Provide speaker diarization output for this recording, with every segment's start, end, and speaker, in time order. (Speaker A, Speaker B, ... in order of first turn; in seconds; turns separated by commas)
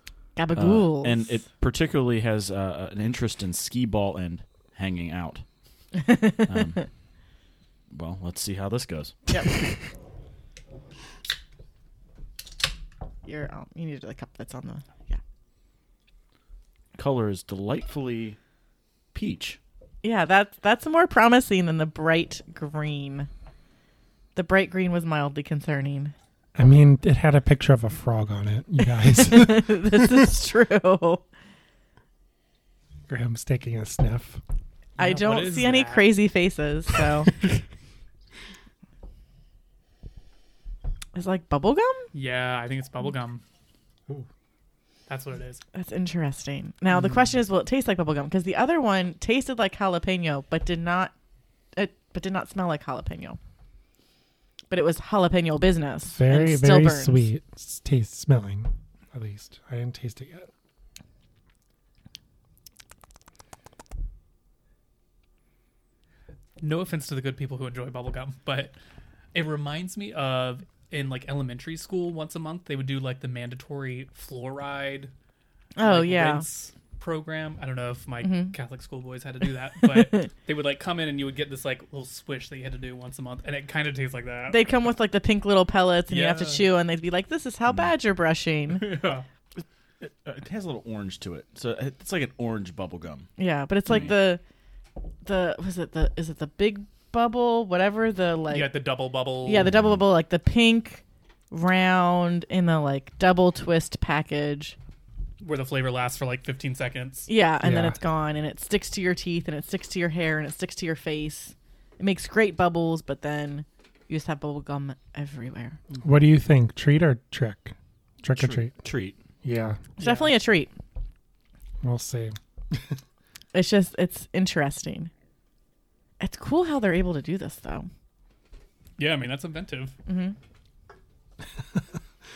Speaker A: 0.4-1.4, Speaker B: 0.6-5.5, Speaker B: 6.4-6.9, Speaker B: 7.9-9.3, Speaker A: 13.2-15.2, Speaker B: 16.9-18.4, Speaker B: 19.1-19.6, Speaker A: 20.0-23.3, Speaker A: 24.4-26.1, Speaker C: 26.6-30.1, Speaker A: 29.1-31.2, Speaker C: 33.1-34.4, Speaker D: 35.0-36.1, Speaker A: 35.0-37.3, Speaker A: 41.1-42.1, Speaker D: 42.1-43.4, Speaker D: 45.1-45.6, Speaker A: 45.7-51.1, Speaker A: 51.8-53.4, Speaker A: 54.7-57.3, Speaker C: 56.1-60.5, Speaker D: 66.6-68.8, Speaker D: 69.3-75.1, Speaker A: 75.8-76.5, Speaker D: 75.8-84.6, Speaker A: 78.2-78.5, Speaker A: 84.5-88.8, Speaker D: 86.1-86.7, Speaker D: 88.7-89.2, Speaker B: 89.6-93.3, Speaker A: 93.4-94.4, Speaker A: 95.2-98.7, Speaker D: 98.5-99.7, Speaker A: 99.5-104.8, Speaker B: 99.7-100.0, Speaker D: 105.4-107.3, Speaker A: 107.3-115.8, Speaker C: 107.6-108.0, Speaker C: 116.0-118.8, Speaker B: 118.4-119.2, Speaker C: 119.4-119.8, Speaker A: 120.0-120.7, Speaker D: 120.0-120.3, Speaker C: 121.8-123.0, Speaker A: 123.5-125.1, Speaker A: 126.2-127.9, Speaker D: 129.0-129.9, Speaker A: 130.1-130.4